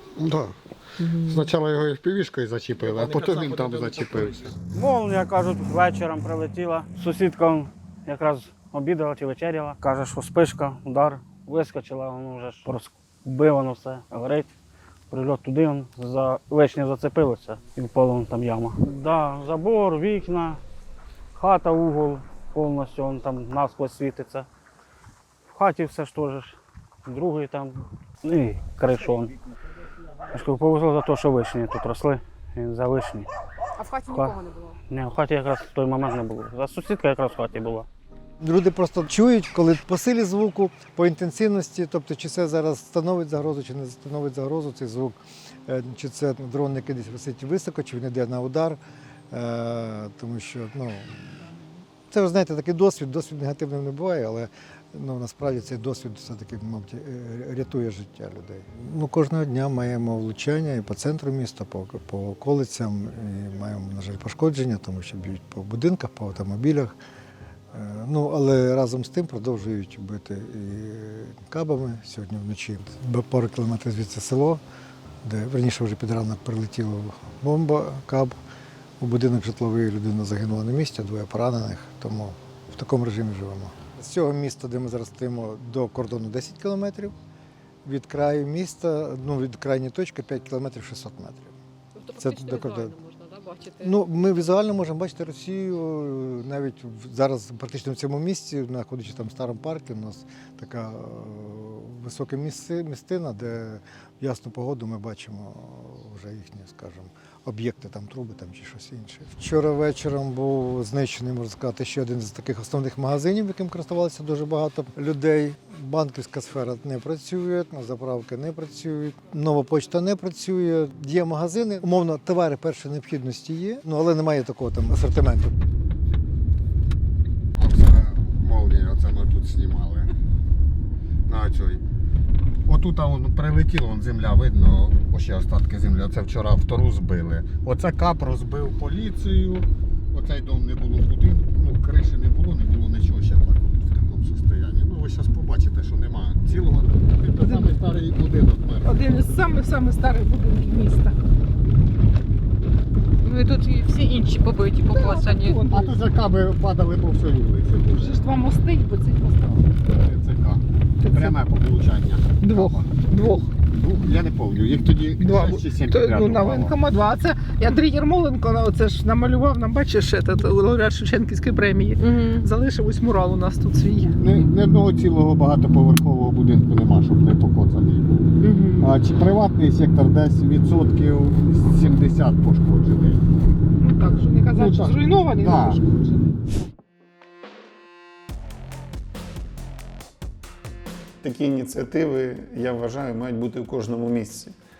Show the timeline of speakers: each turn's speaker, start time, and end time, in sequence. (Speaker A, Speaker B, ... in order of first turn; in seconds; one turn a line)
Speaker A: 0.2-4.5
Speaker B: 1.0-1.4
Speaker C: 4.7-14.5
Speaker C: 15.1-20.6
Speaker C: 21.4-24.5
Speaker C: 25.5-29.3
Speaker C: 30.3-33.3
Speaker B: 33.8-34.8
Speaker C: 34.1-37.9
Speaker D: 38.4-48.8
Speaker D: 49.3-51.4
Speaker D: 52.1-66.9
Speaker D: 67.7-74.6
Speaker D: 75.2-78.4
Speaker D: 79.0-87.1
Speaker D: 87.8-91.5
Speaker B: 92.0-94.0
Speaker D: 92.2-93.0
Speaker D: 93.8-125.5
Speaker A: 127.6-130.1
Speaker A: 131.3-131.8
Speaker A: 132.7-149.3
Speaker E: 147.4-147.8
Speaker E: 148.8-151.2
Speaker B: 153.2-155.6
Speaker E: 154.9-156.0
Speaker A: 155.7-158.2
Speaker E: 157.9-159.7
Speaker A: 159.8-162.9
Speaker E: 161.0-161.4
Speaker E: 162.4-163.5
Speaker A: 163.7-166.8
Speaker E: 165.2-174.2
Speaker B: 172.1-172.4
Speaker A: 174.2-178.3
Speaker E: 178.4-178.9
Speaker A: 178.8-183.2
Speaker E: 183.8-186.4
Speaker A: 184.6-185.8
Speaker F: 191.2-194.5